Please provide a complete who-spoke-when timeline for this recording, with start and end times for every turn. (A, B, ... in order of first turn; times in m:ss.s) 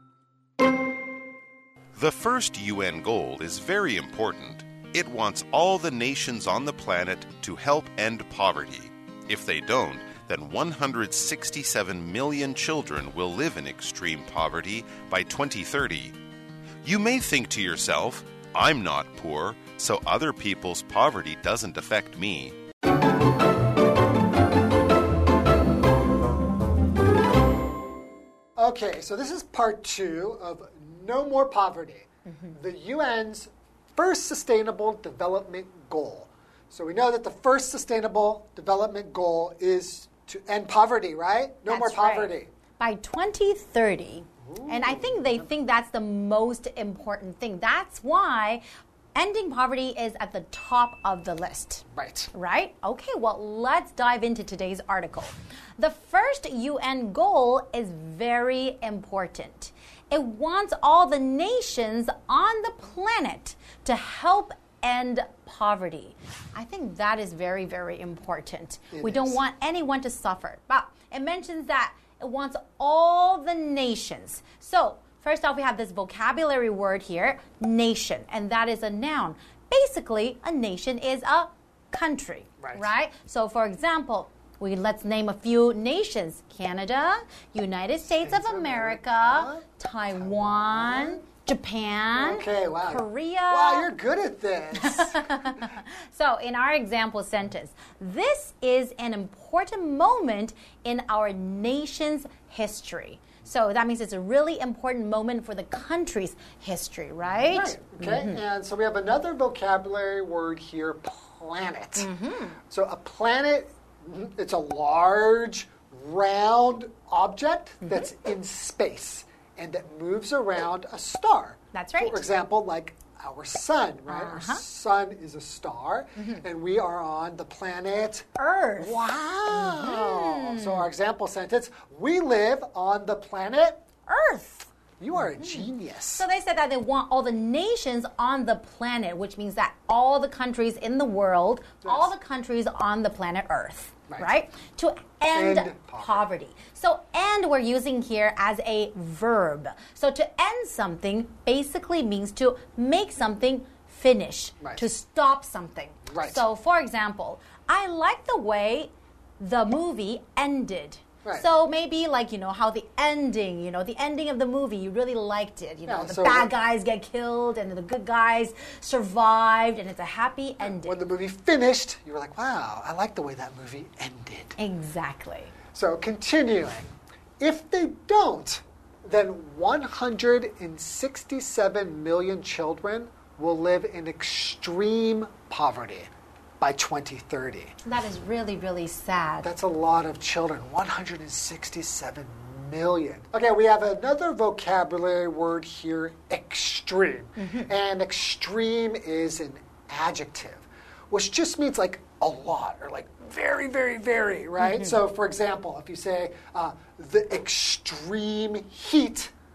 0:02.0-0:16.2 A
0:16.8-0:22.6 A
0:28.6-0:42.5 B
0:32.2-0:32.5 C
0:41.7-0:48.6 C
0:44.4-0:45.5 B
0:49.1-1:33.9 C
0:51.9-0:52.3 B
1:08.9-1:09.4 B
1:22.6-1:22.8 B
1:28.2-1:31.2 B
1:32.2-1:35.2 B
1:34.8-1:48.4 C
1:47.3-1:52.1 B
1:52.0-1:52.6 C
1:52.7-2:13.8 B
2:01.7-2:02.2 C
2:04.1-2:04.6 C
2:06.2-2:06.4 C
2:08.4-2:09.0 C
2:09.5-2:10.9 C
2:14.1-2:14.7 C
2:15.0-2:16.3 B
2:15.4-2:51.0 C
2:21.8-2:22.1 B
2:25.3-2:26.2 B
2:36.1-2:36.4 B
2:45.8-2:46.5 B
2:50.6-2:54.6 B
2:54.6-2:55.5 C
2:55.7-3:06.1 B
3:06.6-3:07.7 B
3:07.8-3:09.5 C
3:09.4-3:29.3 B
3:17.4-3:17.7 C
3:24.6-3:25.0 C